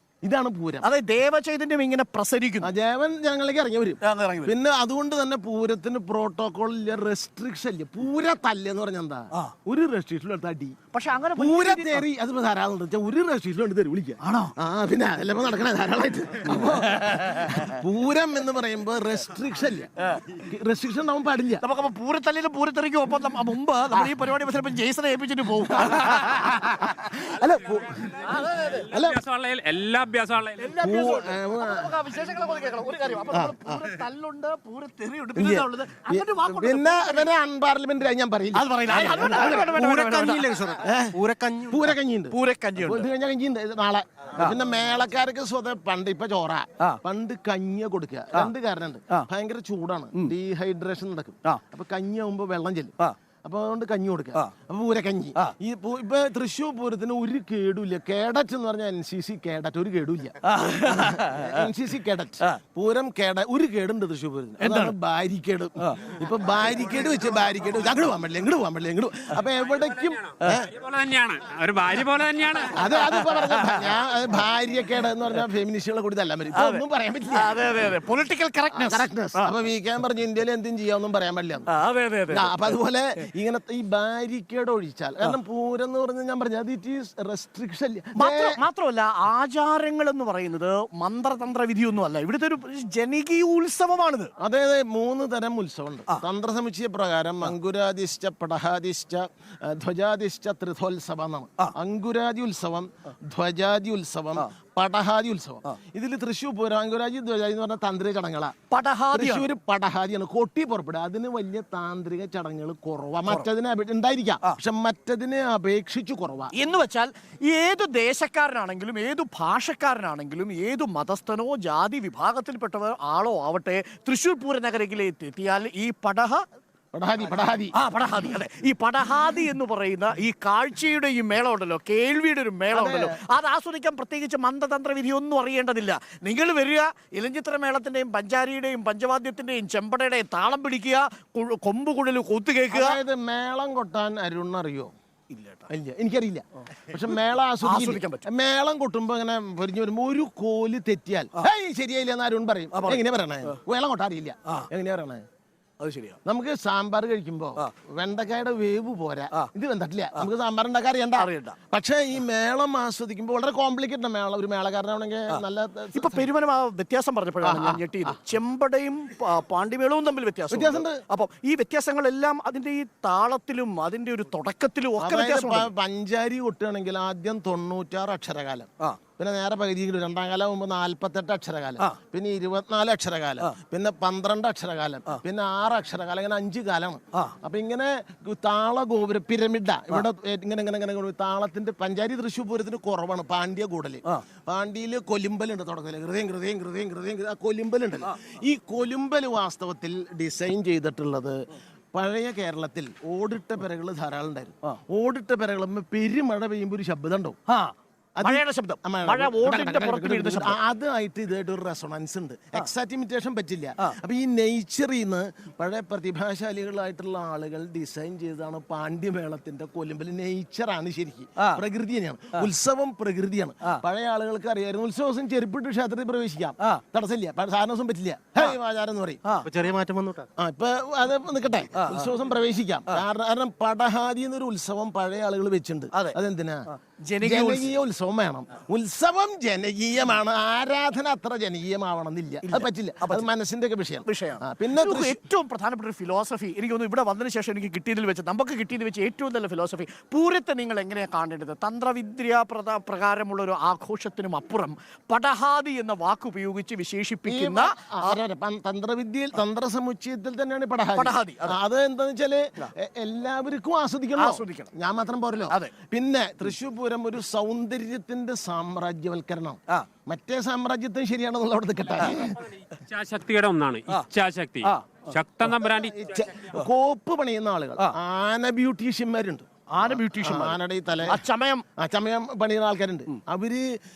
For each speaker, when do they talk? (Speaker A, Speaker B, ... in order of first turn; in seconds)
Speaker A: 0.2-0.9, 2.6-10.8, 11.3-21.6, 25.7-28.3, 28.9-29.2, 30.8-31.9, 33.3-33.8, 35.3-39.7, 40.8-70.7, 72.7-77.8, 78.7-81.7, 82.3-88.6, 94.4-108.5, 109.1-116.5, 126.9-127.7, 132.7-133.2, 142.7-144.9, 145.7-155.2, 156.2-166.3, 167.4-168.2, 170.5-171.0, 175.0-207.4, 208.2-229.2, 230.4-236.7, 237.2-245.2, 257.2-272.5, 275.6-281.2, 281.8-283.8
Speaker B: 0.8-2.7, 4.0-4.5, 10.9-12.0, 14.2-14.5, 16.8-17.8, 20.0-20.3, 21.6-26.5, 28.2-28.9, 30.6-37.3, 38.5-40.7, 42.3-43.1, 60.4-61.7, 64.6-64.9, 65.8-66.1, 72.8-74.0, 76.5-79.5, 81.7-82.7, 88.2-94.3, 108.7-109.5, 116.5-126.4, 127.7-143.0, 145.3-145.7, 147.6-148.2, 152.7-153.6, 155.8-156.2, 161.2-161.6, 165.9-175.7, 207.5-210.6, 221.4-221.6, 229.2-229.5, 231.7-232.1, 235.9-236.2, 236.7-237.7, 242.4-243.3, 244.0-258.2, 260.9-261.6, 264.1-264.7, 274.6-275.0, 279.7-281.6
Speaker C: 28.7-30.7, 70.1-72.8, 272.6-276.4
Speaker D: 38.9-41.9, 229.4-230.3